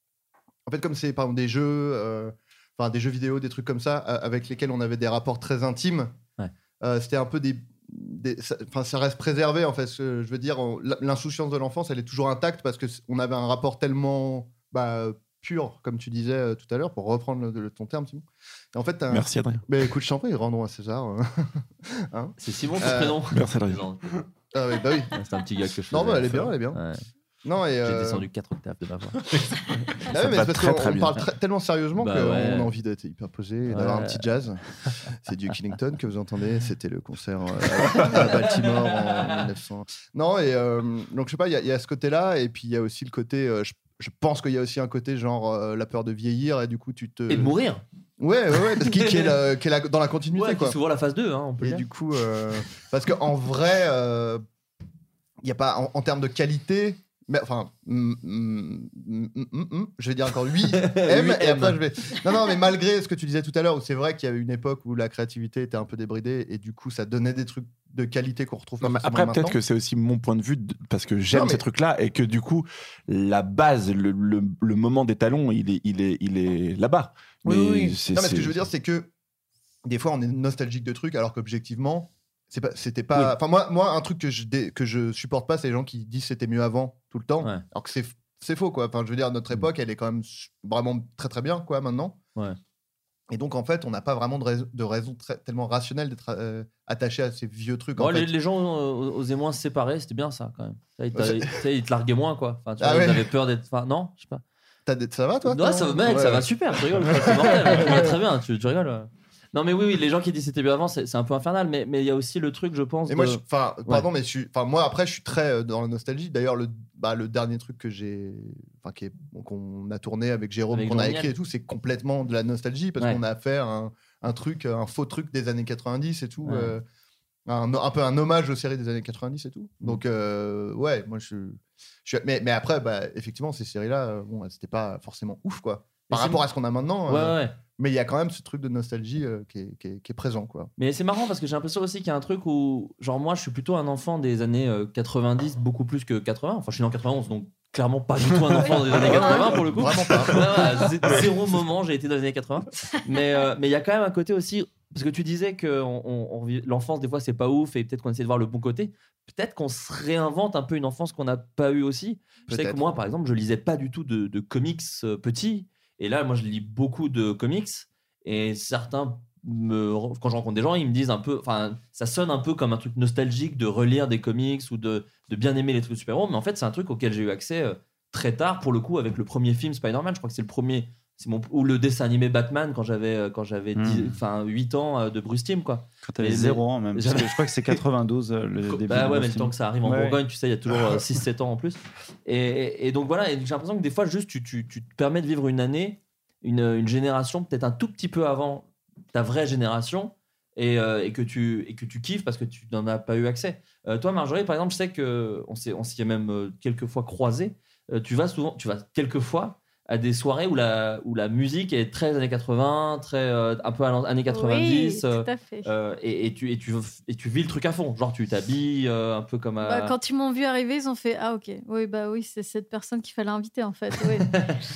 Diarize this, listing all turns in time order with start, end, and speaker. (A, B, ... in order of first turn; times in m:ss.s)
0:00.6-0:06.1 A
0:06.8-0:23.2 A
0:19.1-0:19.6 B
0:22.4-0:24.0 C
0:23.3-0:24.2 B
0:24.5-0:25.1 A
0:25.1-0:27.0 C
0:25.9-0:26.8 A
0:27.4-0:28.2 A
0:27.8-0:29.2 C
0:29.3-0:31.2 B
0:30.1-0:47.5 A
0:32.0-0:32.7 C
0:33.7-0:34.3 C
0:37.8-0:39.5 C
0:47.3-0:47.8 C
0:48.2-0:50.8 A
0:48.7-0:49.4 C
0:50.3-0:51.9 C
0:51.6-0:54.4 A
0:55.4-1:09.6 A
1:00.7-1:01.8 C
1:08.8-1:18.6 B
1:11.3-1:11.6 A
1:17.5-1:19.1 A
1:19.8-1:32.2 A
1:33.3-1:38.3 A
1:38.0-1:44.4 C
1:41.1-1:41.6 A
1:42.8-1:43.3 A
1:44.8-1:48.1 A
1:45.4-1:54.1 C
1:53.1-2:06.8 A
2:00.7-2:01.3 C
2:06.4-2:06.7 C
2:07.5-2:20.7 A
2:16.1-2:16.4 C
2:17.1-2:17.6 C
2:20.8-3:07.8 C
2:28.7-2:29.4 D
2:28.9-2:30.9 A
2:42.5-2:42.8 A
3:03.8-3:04.1 E
3:06.0-3:10.2 E
3:08.6-3:39.9 C
3:34.3-3:35.7 D
3:39.6-3:44.4 D